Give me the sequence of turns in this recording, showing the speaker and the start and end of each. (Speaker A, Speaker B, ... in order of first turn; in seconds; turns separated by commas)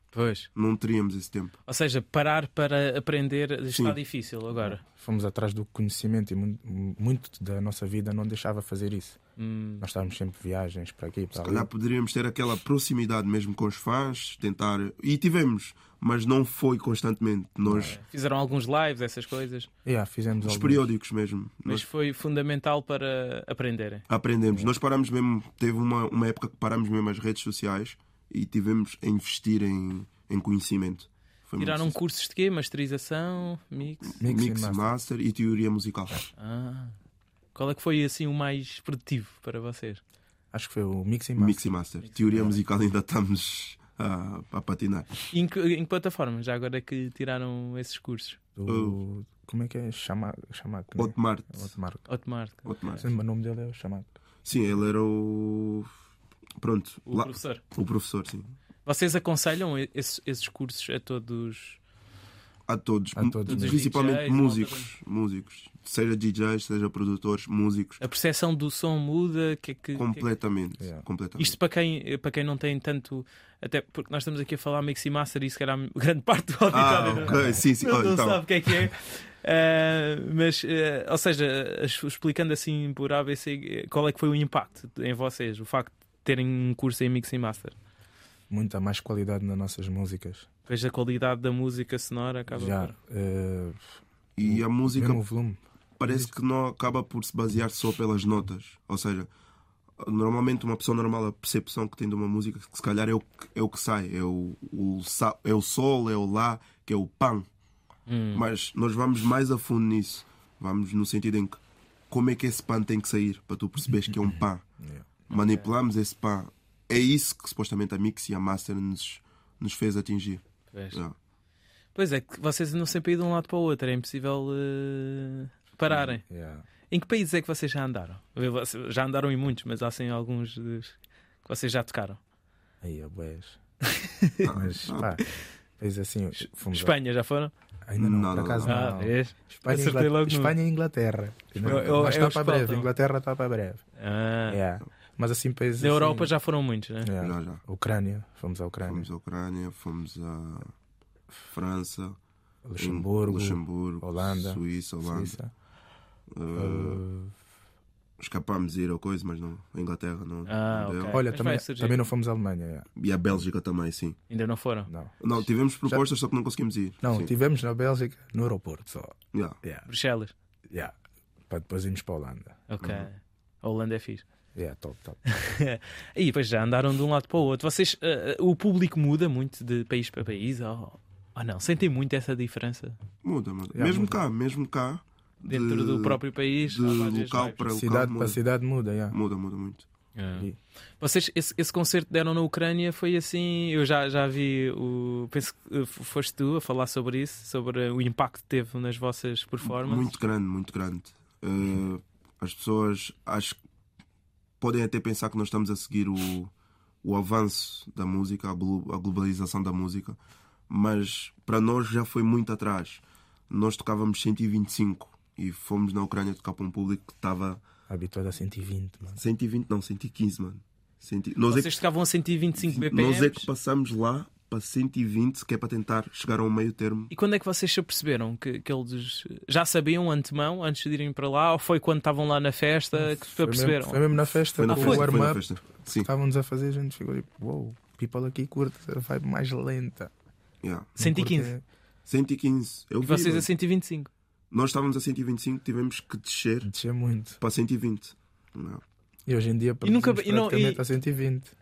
Speaker A: 0.1-0.5, Speaker B: 0.5-1.5, Speaker A: 1.7-4.8, Speaker B: 3.7-4.0, Speaker C: 4.6-9.2, Speaker A: 9.4-9.8, Speaker C: 9.8-11.7, Speaker B: 11.3-18.0, Speaker C: 17.6-18.0, Speaker A: 17.9-19.7, Speaker C: 19.8-20.8, Speaker B: 20.4-21.8, Speaker A: 21.6-24.0, Speaker B: 24.1-31.9, Speaker A: 31.6-34.2, Speaker B: 34.1-36.2, Speaker C: 34.2-34.9, Speaker A: 36.4-36.9, Speaker A: 37.5-40.0, Speaker C: 40.5-41.6, Speaker B: 41.4-45.1, Speaker A: 42.0-42.5, Speaker A: 45.3-48.4, Speaker C: 48.5-52.0, Speaker B: 48.7-49.0, Speaker B: 51.0-51.7, Speaker A: 52.1-53.0, Speaker B: 52.6-53.0, Speaker C: 53.0-54.1, Speaker B: 54.4-55.9, Speaker B: 56.6-58.5, Speaker A: 57.1-57.6, Speaker A: 58.8-61.8, Speaker B: 62.7-68.0, Speaker C: 63.1-63.8, Speaker A: 63.5-64.9, Speaker A: 68.0-70.2, Speaker B: 70.0-71.5, Speaker A: 71.4-87.8, Speaker B: 76.7-78.4, Speaker C: 88.5-90.5, Speaker A: 90.7-92.9, Speaker C: 92.5-93.9, Speaker B: 94.3-95.2, Speaker C: 94.4-96.3, Speaker B: 96.0-99.3, Speaker B: 100.0-107.5, Speaker A: 108.1-108.4, Speaker B: 108.3-111.6, Speaker B: 112.1-114.6, Speaker C: 114.2-115.1, Speaker B: 115.3-121.1, Speaker A: 115.3-115.7, Speaker A: 120.7-121.0, Speaker A: 121.9-126.2, Speaker C: 126.0-126.6, Speaker A: 126.9-132.2, Speaker C: 132.8-133.6, Speaker A: 133.9-134.4, Speaker B: 134.4-135.2, Speaker C: 134.4-135.2, Speaker C: 135.8-136.9, Speaker A: 136.4-137.5, Speaker C: 137.8-143.8, Speaker B: 138.0-138.8, Speaker A: 138.6-140.5, Speaker A: 141.6-142.9, Speaker A: 144.0-144.6, Speaker C: 144.5-146.3, Speaker A: 145.8-147.1, Speaker C: 147.0-149.1, Speaker B: 147.2-147.6, Speaker B: 148.8-150.7, Speaker B: 151.5-152.2, Speaker C: 152.7-155.5, Speaker B: 152.8-155.4, Speaker B: 156.3-157.0, Speaker C: 156.5-157.3, Speaker B: 158.2-161.2, Speaker A: 160.5-162.0, Speaker C: 161.1-162.9, Speaker B: 163.0-164.2, Speaker A: 164.3-164.9, Speaker C: 164.9-165.2, Speaker B: 165.2-167.3, Speaker C: 167.0-169.9, Speaker A: 169.8-170.3, Speaker C: 171.5-172.6, Speaker A: 172.7-174.2, Speaker B: 172.8-173.1, Speaker C: 174.5-175.2, Speaker A: 175.3-183.0, Speaker B: 183.2-188.4, Speaker C: 183.7-184.2, Speaker A: 185.4-187.6, Speaker C: 187.7-189.2, Speaker B: 189.1-189.9, Speaker A: 190.1-190.5, Speaker A: 191.0-200.1, Speaker B: 199.6-203.6, Speaker B: 204.6-206.5, Speaker B: 207.0-210.2, Speaker B: 210.7-217.6, Speaker C: 217.9-219.2, Speaker B: 219.2-221.7, Speaker A: 221.5-223.4, Speaker B: 222.6-227.1, Speaker A: 227.1-235.1, Speaker C: 232.9-240.1, Speaker B: 234.5-236.1, Speaker B: 240.6-240.9, Speaker A: 241.0-241.5, Speaker C: 241.0-241.6, Speaker B: 242.1-243.5, Speaker A: 243.0-244.1, Speaker B: 244.5-246.7, Speaker C: 246.6-247.4, Speaker B: 247.4-248.8, Speaker C: 249.3-251.5, Speaker A: 249.8-250.8